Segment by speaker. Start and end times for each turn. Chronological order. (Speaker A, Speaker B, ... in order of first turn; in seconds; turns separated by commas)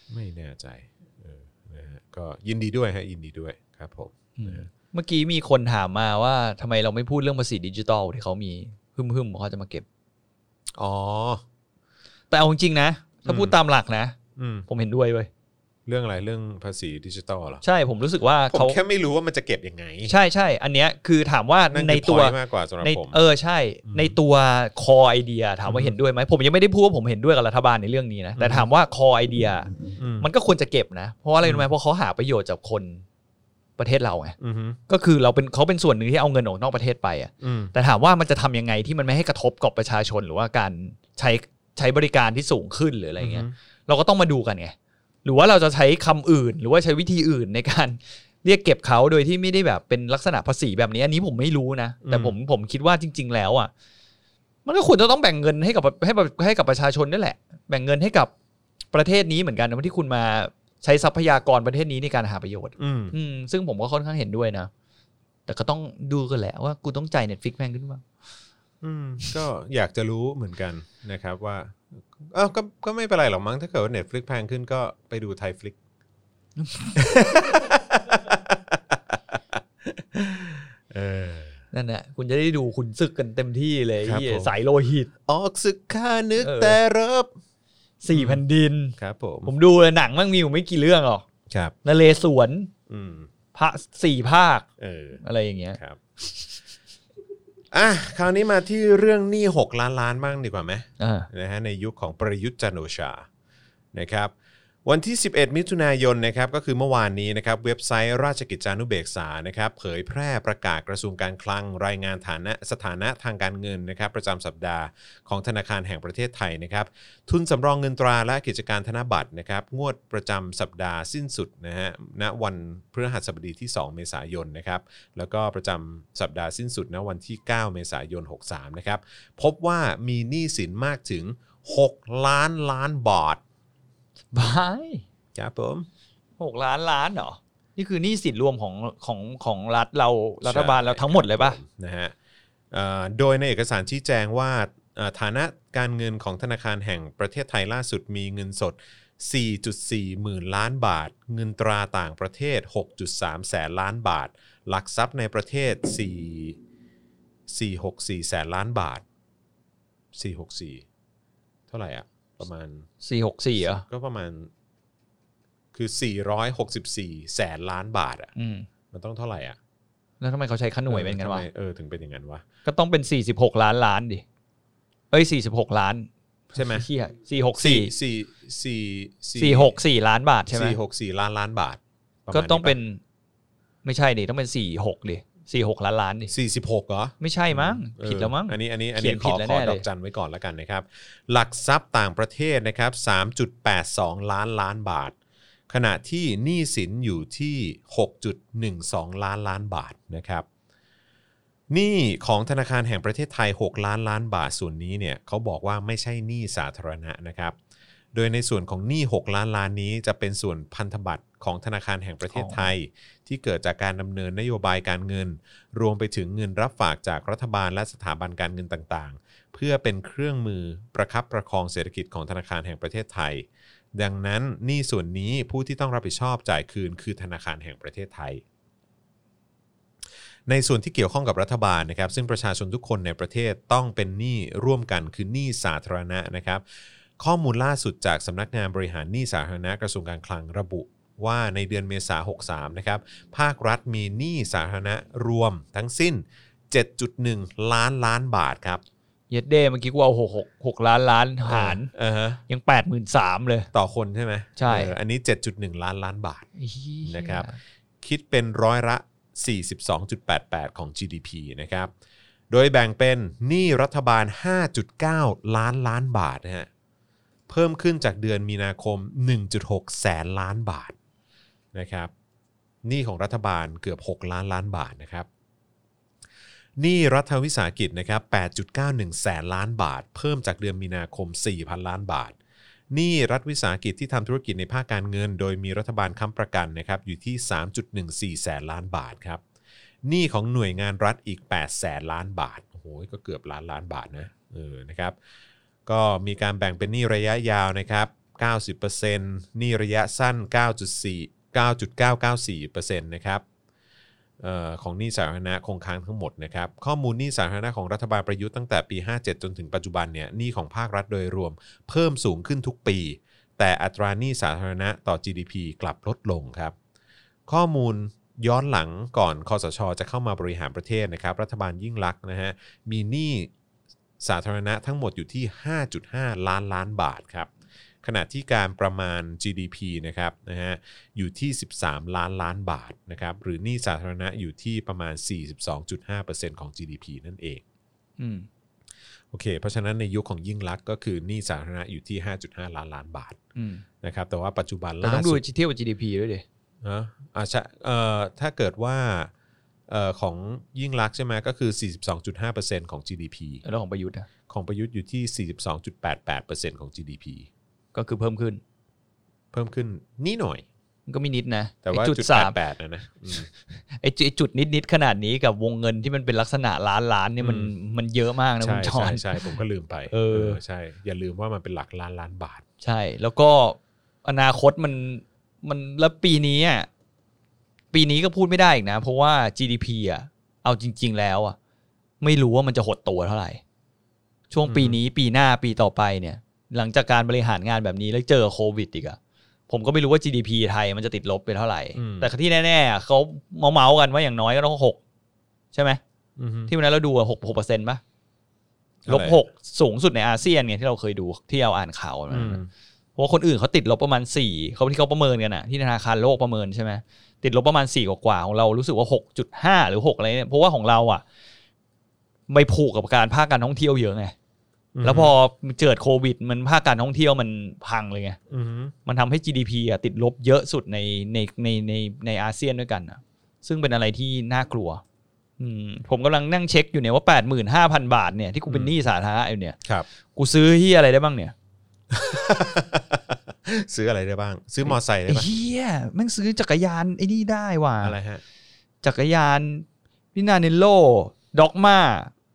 Speaker A: 0.1-4.7, Speaker B: 4.4-9.8, Speaker A: 10.8-11.4, Speaker B: 12.3-14.2, Speaker A: 13.2-13.6, Speaker A: 14.3-14.7, Speaker B: 14.7-15.3, Speaker A: 15.8-17.6, Speaker B: 17.6-18.8, Speaker A: 18.5-20.1, Speaker B: 20.1-33.0, Speaker A: 21.7-23.2, Speaker A: 23.9-24.2, Speaker A: 25.6-25.9, Speaker A: 28.4-28.7, Speaker A: 30.0-30.3, Speaker A: 31.4-31.7, Speaker B: 33.8-34.4, Speaker A: 34.4-34.8, Speaker B: 34.9-44.7, Speaker A: 37.4-37.7, Speaker A: 43.2-43.5, Speaker B: 45.2-53.7, Speaker A: 52.0-52.3, Speaker B: 54.6-58.3, Speaker B: 58.9-64.7, Speaker A: 62.8-63.1, Speaker B: 65.5-68.0, Speaker A: 68.8-75.8, Speaker B: 76.6-77.2, Speaker A: 77.0-81.6, Speaker B: 81.7-85.1, Speaker A: 84.0-84.5, Speaker A: 85.2-87.3, Speaker B: 86.4-86.8, Speaker B: 88.0-91.2, Speaker A: 88.1-88.4, Speaker A: 89.0-89.5, Speaker A: 91.5-91.7, Speaker B: 91.8-92.7, Speaker A: 92.9-93.3, Speaker B: 93.5-94.7, Speaker A: 94.8-95.2, Speaker B: 95.2-95.8, Speaker A: 95.8-96.0, Speaker A: 97.7-103.2, Speaker B: 101.0-101.3, Speaker A: 103.9-104.3, Speaker A: 104.8-133.4, Speaker B: 134.3-135.0, Speaker A: 135.3-135.9, Speaker B: 136.4-141.6, Speaker A: 140.4-142.1, Speaker A: 142.7-156.6, Speaker A: 157.5-159.0, Speaker A: 160.1-160.8, Speaker A: 161.7-162.9, Speaker B: 163.0-163.8, Speaker A: 163.6-164.5, Speaker A: 165.7-168.3, Speaker B: 168.3-168.7, Speaker A: 168.9-169.6, Speaker B: 170.2-171.4, Speaker A: 170.9-172.4, Speaker B: 172.6-174.2, Speaker B: 175.1-177.9, Speaker A: 176.5-176.8, Speaker A: 177.6-179.8, Speaker B: 179.3-180.8, Speaker A: 180.5-182.8, Speaker B: 182.3-183.0, Speaker B: 183.8-186.3, Speaker A: 186.3-195.1, Speaker B: 187.2-189.8, Speaker A: 195.7-200.4, Speaker A: 201.7-207.6, Speaker A: 208.1-228.4, Speaker B: 212.3-212.7, Speaker A: 230.5-236.6, Speaker A: 237.2-248.8, Speaker B: 249.3-251.9, Speaker A: 251.5-252.4, Speaker B: 252.5-253.7, Speaker A: 253.7-256.5, Speaker B: 254.6-254.9, Speaker B: 256.6-257.6, Speaker A: 257.0-257.5, Speaker A: 258.0-261.9, Speaker A: 262.5-266.7, Speaker A: 267.5-270.9, Speaker A: 271.7-272.1, Speaker A: 272.8-275.3, Speaker A: 276.8-282.4, Speaker A: 282.9-289.4, Speaker A: 290.0-295.1, Speaker A: 295.9-303.4, Speaker A: 304.4-316.7, Speaker A: 317.5-323.5, Speaker A: 324.2-327.5, Speaker A: 328.0-337.6, Speaker B: 338.2-338.5, Speaker A: 339.3-343.4, Speaker B: 343.6-343.8, Speaker A: 344.0-345.4, Speaker B: 345.0-346.4, Speaker A: 346.8-349.3, Speaker A: 349.9-353.6, Speaker B: 353.6-354.3, Speaker A: 354.5-357.5, Speaker B: 357.9-358.6, Speaker A: 359.5-360.6, Speaker B: 361.1-362.6, Speaker A: 361.8-363.5, Speaker B: 363.9-369.5, Speaker A: 367.4-367.7, Speaker A: 368.6-372.6, Speaker B: 370.1-370.6, Speaker B: 372.8-376.9, Speaker B: 377.9-381.6, Speaker B: 382.2-383.6, Speaker B: 384.5-389.2, Speaker A: 384.6-385.0, Speaker B: 389.7-395.0, Speaker A: 391.9-392.3, Speaker B: 395.7-396.0, Speaker A: 396.4-396.7, Speaker B: 396.7-398.0, Speaker A: 399.0-399.4, Speaker B: 399.1-402.6, Speaker A: 402.3-402.7, Speaker B: 403.2-411.2, Speaker B: 412.5-414.3, Speaker A: 414.9-415.3, Speaker B: 415.0-418.4, Speaker A: 418.5-418.9, Speaker B: 419.1-425.0, Speaker B: 425.6-429.8, Speaker A: 428.7-428.9, Speaker B: 430.3-431.5, Speaker A: 432.1-435.5, Speaker B: 434.9-438.1, Speaker A: 438.0-438.4, Speaker B: 439.0-442.3